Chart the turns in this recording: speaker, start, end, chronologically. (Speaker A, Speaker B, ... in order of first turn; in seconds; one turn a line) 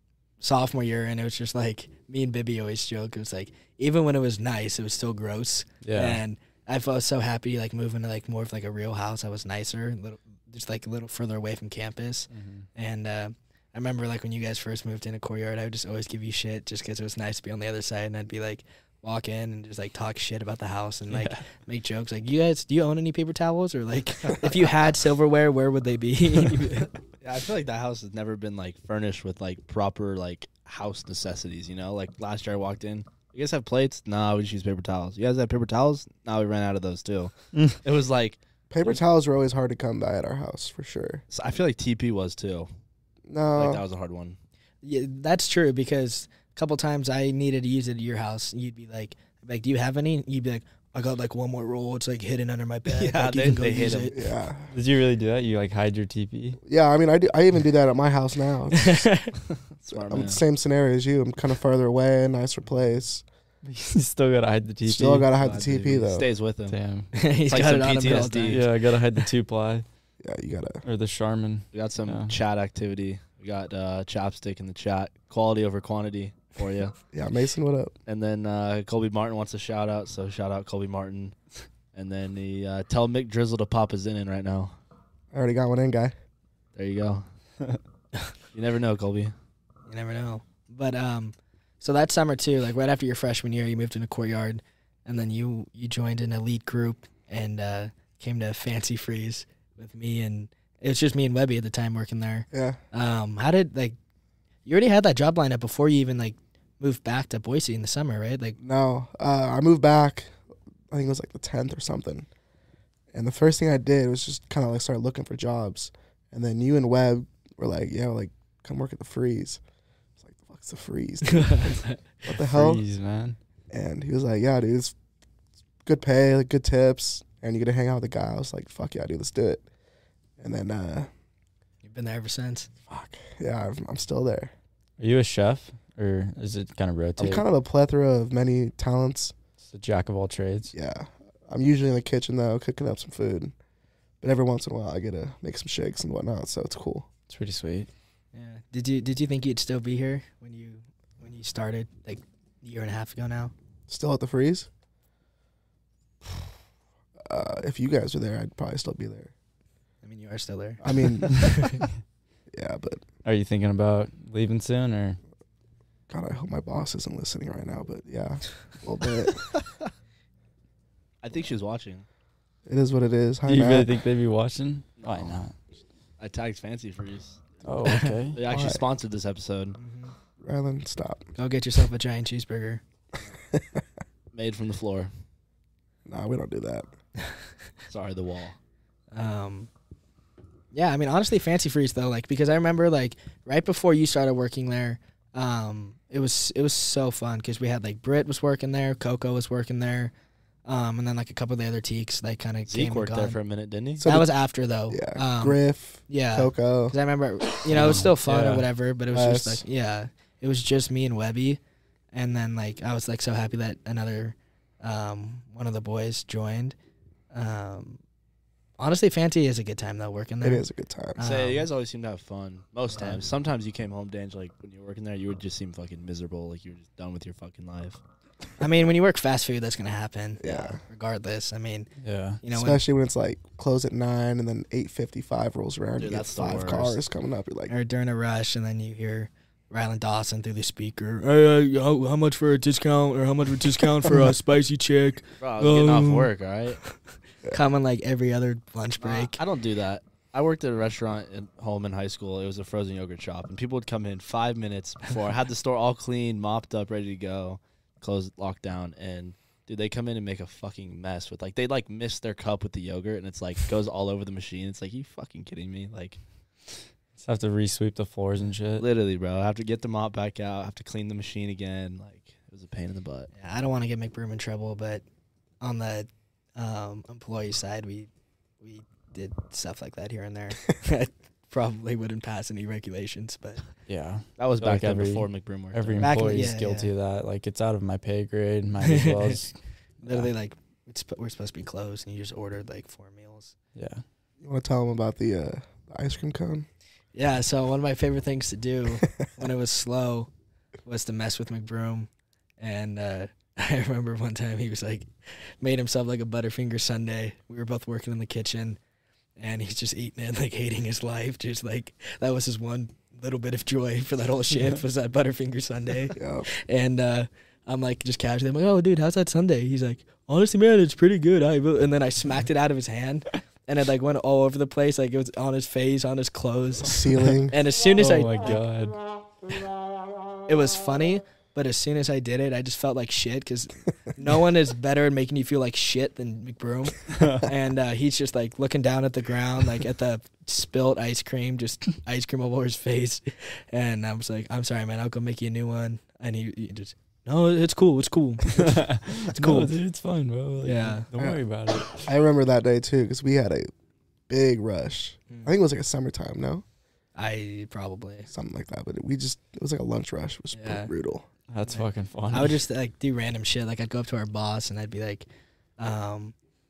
Speaker A: 0.4-26.9
Speaker B: 5.8-6.2
Speaker B: 12.3-12.7
Speaker B: 21.1-21.4
Speaker C: 27.2-39.0
Speaker D: 38.7-41.2
Speaker C: 41.3-42.7
Speaker D: 43.3-43.8
Speaker C: 43.5-44.4
Speaker A: 44.8-54.2
Speaker C: 52.9-54.1
Speaker D: 54.1-54.7
Speaker B: 54.7-56.6
Speaker D: 56.6-59.1
Speaker A: 58.7-59.3
Speaker C: 59.7-60.4
Speaker D: 59.9-63.2
Speaker B: 63.6-65.3
Speaker D: 64.8-66.3
Speaker C: 65.3-66.8
Speaker B: 66.7-67.1
Speaker A: 67.1-68.6
Speaker C: 67.5-68.6
Speaker B: 68.5-69.8
Speaker D: 70.2-70.8
Speaker B: 70.8-72.3
Speaker C: 71.7-76.9
Speaker D: 77.1-77.9
Speaker C: 78.0-81.3
Speaker C: 81.9-84.7
Speaker D: 85.3-86.1
Speaker C: 86.8-87.2
Speaker C: 88.5-89.3
Speaker A: 89.9-104.0
Speaker D: 102.5-102.8
Speaker A: 104.7-108.6
Speaker D: 108.6-110.3
Speaker D: 110.9-112.3
Speaker D: 113.1-119.6
Speaker D: 120.2-122.8
Speaker A: 121.3-122.0
Speaker B: 122.3-123.4
Speaker D: 123.7-124.9
Speaker D: 125.8-129.6
Speaker D: 130.4-131.1
Speaker A: 131.8-132.7
Speaker D: 132.9-134.5
Speaker B: 135.0-137.4
Speaker D: 137.2-139.3
Speaker B: 139.6-140.7
Speaker D: 140.7-143.5
Speaker D: 144.2-147.1
Speaker B: 147.3-147.9
Speaker A: 148.3-153.5
Speaker D: 153.9-154.7
Speaker D: 157.2-159.3
Speaker A: 160.0-161.8
Speaker D: 160.8-161.4
Speaker D: 162.5-163.0
Speaker B: 163.2-165.2
Speaker D: 166.1-169.5
Speaker C: 171.2-172.1
Speaker D: 172.7-173.9
Speaker B: 173.4-175.5
Speaker C: 175.0-175.4
Speaker C: 176.2-177.6
Speaker B: 177.6-178.4
Speaker A: 177.8-178.2
Speaker C: 178.3-179.8
Speaker D: 178.4-178.8
Speaker A: 179.8-180.1
Speaker D: 180.4-181.2
Speaker A: 181.4-182.8
Speaker D: 183.5-183.8
Speaker C: 184.3-185.1
Speaker D: 186.1-186.9
Speaker C: 187.9-188.6
Speaker A: 189.1-189.7
Speaker A: 190.7-200.1
Speaker A: 200.6-203.4
Speaker C: 202.7-204.0
Speaker D: 204.0-204.3
Speaker A: 204.0-205.6
Speaker D: 204.9-206.9
Speaker A: 206.1-211.6
Speaker B: 207.7-208.6
Speaker D: 209.1-209.6
Speaker A: 212.1-216.8
Speaker A: 217.3-218.0
Speaker A: 218.8-220.6
Speaker D: 220.4-221.2
Speaker A: 221.2-221.7
Speaker C: 221.2-228.0
Speaker A: 222.9-223.2
Speaker A: 228.6-231.9
Speaker D: 230.4-230.8
Speaker B: 232.0-232.4
Speaker A: 232.4-232.8
Speaker D: 232.5-237.7
Speaker C: 236.0-237.0
Speaker A: 237.7-246.3
Speaker C: 245.4-246.8
Speaker A: 247.5-249.4
Speaker C: 249.0-266.2
Speaker B: 267.2-268.9
Speaker C: 268.8-273.3
Speaker A: 273.3-275.0
Speaker A: 275.6-278.1
Speaker A: 278.6-283.6
Speaker B: 283.9-290.3
Speaker C: 284.4-286.5
Speaker A: 286.0-286.9
Speaker A: 288.8-289.4
Speaker A: 290.0-293.5
Speaker B: 293.7-294.0
Speaker D: 294.4-296.7
Speaker A: 297.1-300.3
Speaker A: 300.9-308.8
Speaker A: 309.4-328.6
Speaker D: 316.1-316.5
Speaker D: 326.8-327.6
Speaker B: 328.0-329.0
Speaker A: 330.5-349.8
Speaker B: 337.1-337.5
Speaker B: 348.5-352.0
Speaker A: 350.6-351.1
Speaker D: 351.2-353.7
Speaker D: 354.3-356.6
Speaker A: 357.1-358.3
Speaker D: 358.3-361.2
Speaker A: 360.5-360.9
Speaker B: 361.5-362.6
Speaker A: 361.7-365.2
Speaker A: 365.8-366.3